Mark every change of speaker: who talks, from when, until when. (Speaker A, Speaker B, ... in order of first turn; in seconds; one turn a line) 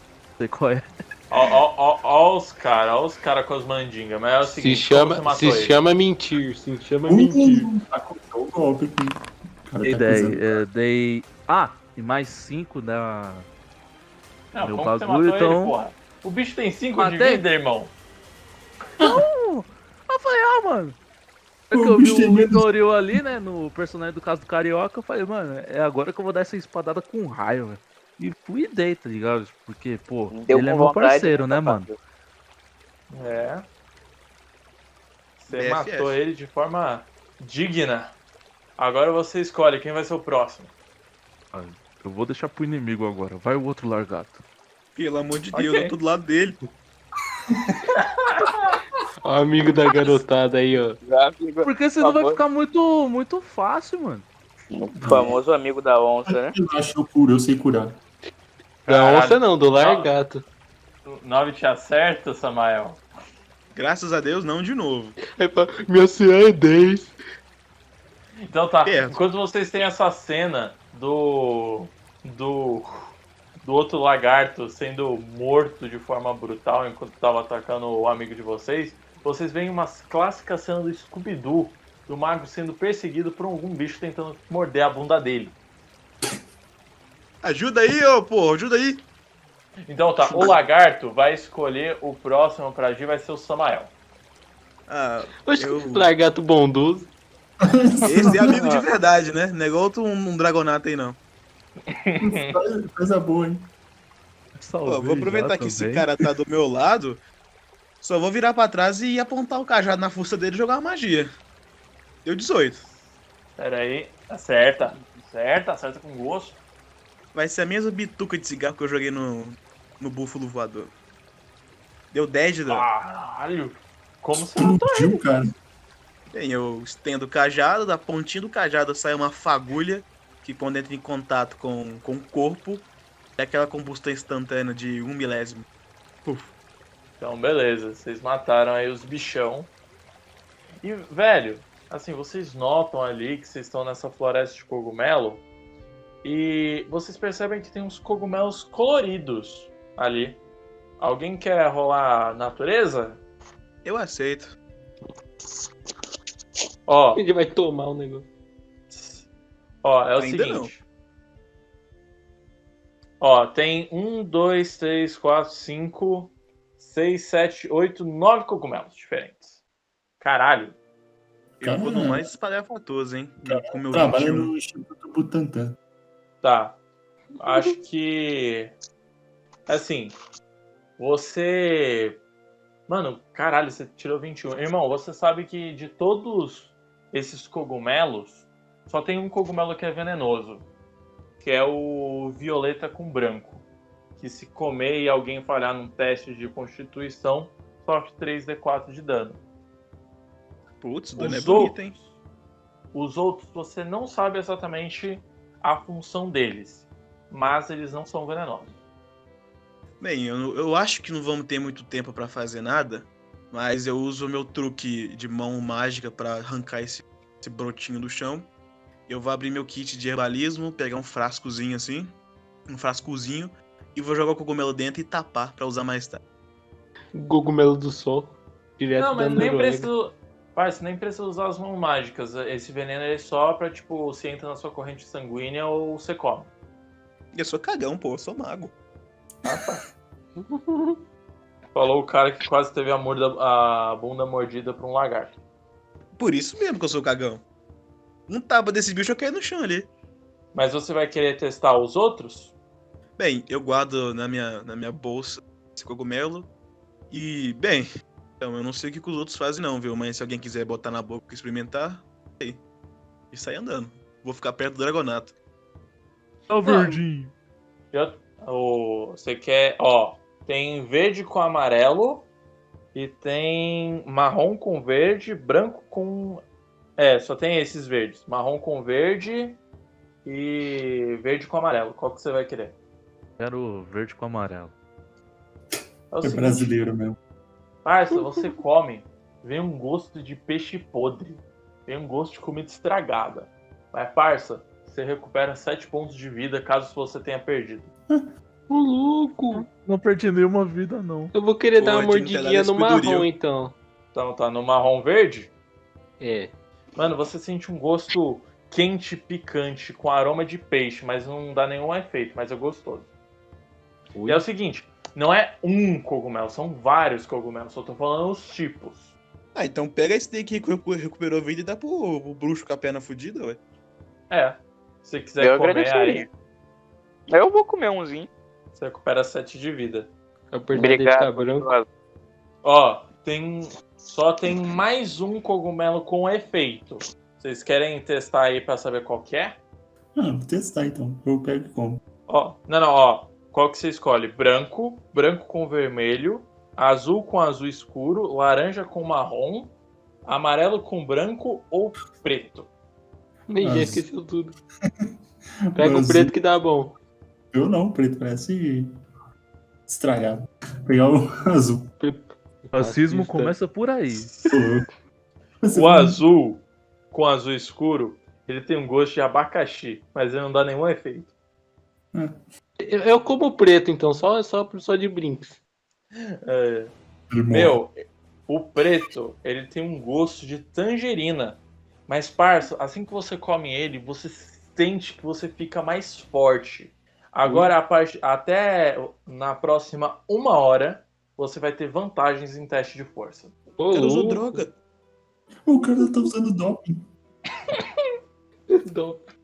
Speaker A: 0.4-0.9
Speaker B: 1.3-5.8
Speaker C: 4.5-7.7
Speaker D: 7.1-10.6
Speaker A: 9.8-13.5
Speaker B: 14.5-17.9
Speaker A: 14.6-15.8
Speaker A: 17.0-17.4
Speaker D: 19.0-19.2
Speaker A: 19.0-21.0
Speaker A: 21.7-31.9
Speaker D: 21.7-22.7
Speaker E: 30.3-32.0
Speaker B: 33.1-33.7
Speaker B: 35.4-38.1
Speaker F: 35.5-36.2
Speaker B: 38.8-40.7
Speaker A: 41.5-44.4
Speaker F: 45.0-46.6
Speaker B: 45.5-45.9
Speaker B: 48.0-48.8
Speaker C: 49.2-51.0
Speaker E: 51.0-52.4
Speaker A: 51.6-54.3
Speaker E: 54.7-56.5
Speaker D: 55.0-55.4
Speaker D: 56.5-58.0
Speaker B: 58.9-60.1
Speaker C: 58.9-60.5
Speaker B: 61.0-63.0
Speaker F: 63.7-65.2
Speaker C: 65.3-67.1
Speaker B: 68.5-85.5
Speaker F: 68.8-69.2
Speaker F: 87.4-89.0
Speaker B: 89.9-93.9
Speaker F: 94.9-96.1
Speaker C: 95.4-97.1
Speaker D: 97.6-98.6
Speaker F: 98.0-101.2
Speaker B: 101.9-102.5
Speaker D: 102.2-103.7
Speaker A: 104.6-106.1
Speaker F: 104.8-107.2
Speaker F: 108.0-111.3
Speaker F: 112.2-112.9
Speaker B: 113.6-116.6
Speaker F: 117.3-120.9
Speaker F: 122.1-122.9
Speaker B: 122.7-125.2
Speaker D: 124.4-125.5
Speaker F: 126.3-135.7
Speaker F: 136.2-136.5
Speaker B: 137.2-139.7
Speaker B: 140.8-145.4
Speaker B: 146.2-150.4
Speaker B: 151.0-153.2
Speaker F: 153.8-154.6
Speaker B: 156.9-157.2
Speaker C: 157.2-158.3
Speaker B: 158.9-159.2
Speaker B: 159.8-160.8
Speaker F: 160.2-160.7
Speaker B: 163.2-169.6
Speaker B: 170.2-170.8
Speaker F: 171.6-174.5
Speaker D: 171.6-172.3
Speaker D: 173.4-175.8
Speaker B: 176.4-176.8
Speaker B: 177.4-178.7
Speaker B: 179.7-180.1
Speaker B: 181.0-182.2
Speaker B: 182.9-190.7
Speaker B: 191.4-193.6
Speaker B: 194.2-199.4
Speaker F: 200.8-202.0
Speaker B: 201.2-201.8
Speaker B: 202.9-208.8
Speaker F: 210.0-218.5
Speaker F: 219.1-222.1
Speaker F: 222.7-226.2
Speaker C: 227.1-229.9
Speaker B: 229.0-236.5
Speaker F: 237.3-238.7
Speaker B: 239.4-239.8
Speaker C: 240.4-241.0
Speaker B: 241.7-245.4
Speaker F: 246.2-247.4
Speaker F: 248.3-249.9
Speaker B: 250.5-252.5
Speaker F: 253.2-256.5
Speaker F: 257.1-257.9
Speaker F: 258.4-262.6
Speaker F: 263.3-265.4
Speaker A: 266.5-267.3
Speaker B: 266.6-267.0
Speaker B: 267.9-272.3
Speaker B: 272.9-276.4
Speaker B: 277.0-279.6
Speaker B: 280.2-282.8
Speaker A: 283.4-284.7
Speaker B: 286.1-286.7
Speaker D: 286.2-287.2
Speaker B: 287.8-297.9
Speaker C: 298.7-299.7
Speaker A: 299.6-301.3
Speaker C: 301.3-303.8
Speaker F: 301.8-303.3
Speaker B: 304.1-305.5
Speaker C: 306.2-306.5
Speaker B: 307.0-313.1
Speaker C: 314.1-314.4
Speaker B: 314.3-319.1
Speaker F: 319.6-323.6
Speaker B: 324.3-326.3
Speaker E: 325.4-326.3
Speaker E: 327.3-328.3
Speaker B: 328.7-330.1
Speaker C: 330.5-331.7
Speaker E: 330.7-331.9
Speaker B: 332.6-339.6
Speaker D: 340.2-342.0
Speaker B: 342.3-349.7
Speaker B: 350.3-352.7
Speaker C: 353.5-354.5
Speaker D: 353.6-354.1
Speaker D: 355.7-356.4
Speaker C: 355.8-357.0
Speaker D: 357.5-358.9
Speaker D: 359.9-361.9
Speaker C: 362.0-363.6
Speaker A: 362.7-364.3
Speaker D: 364.5-364.9
Speaker D: 365.6-366.2
Speaker B: 365.7-371.3
Speaker C: 372.8-375.6
Speaker B: 376.4-376.9
Speaker D: 377.3-377.8
Speaker B: 377.5-377.9
Speaker B: 378.5-393.5
Speaker C: 387.4-387.7
Speaker C: 393.8-394.6
Speaker F: 393.9-394.8
Speaker D: 395.6-397.1
Speaker C: 398.7-399.2